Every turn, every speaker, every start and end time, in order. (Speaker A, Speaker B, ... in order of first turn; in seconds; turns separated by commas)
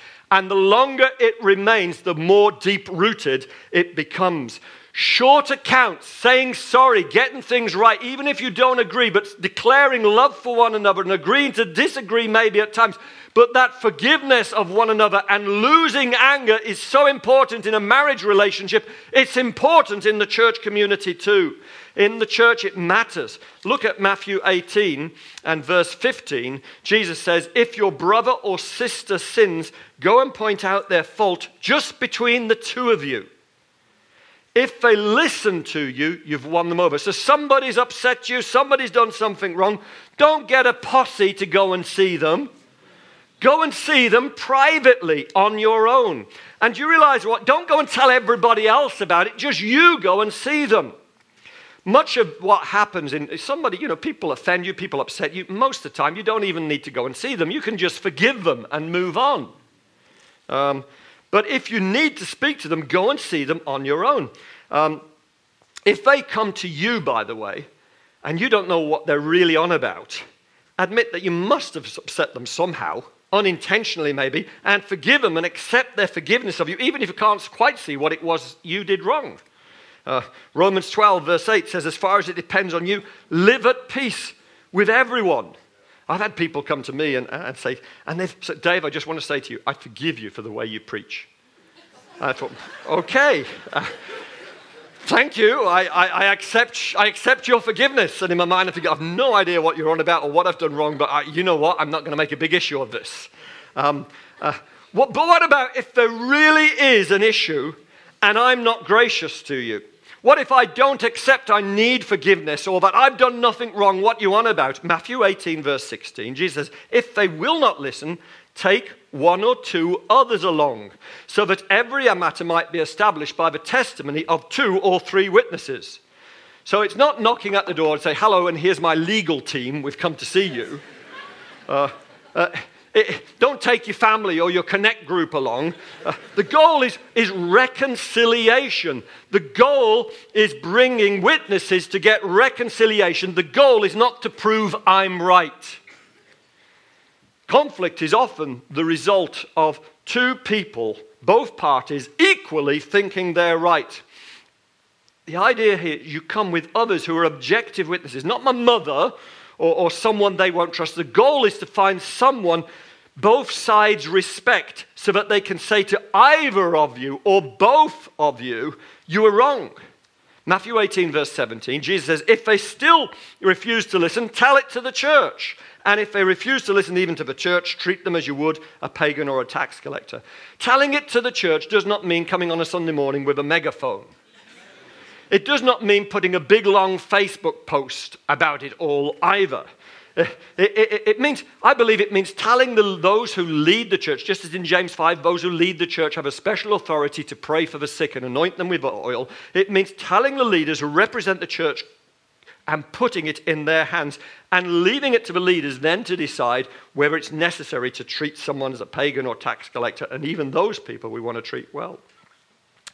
Speaker A: 0.3-33.3, Speaker A: 34.5-42.5, Speaker A: 43.4-50.9, Speaker A: 51.8-59.5, Speaker A: 60.5-65.0, Speaker A: 65.9-67.7, Speaker A: 68.2-70.2, Speaker A: 70.8-79.4, Speaker A: 80.0-85.5, Speaker A: 86.1-91.3, Speaker A: 92.2-93.9, Speaker A: 95.0-126.0, Speaker A: 126.7-130.8, Speaker A: 131.7-145.8, Speaker A: 147.5-154.0, Speaker A: 155.3-162.6, Speaker A: 163.2-169.8, Speaker A: 170.4-184.1, Speaker A: 185.3-189.6, Speaker A: 190.2-201.8, Speaker A: 202.7-212.0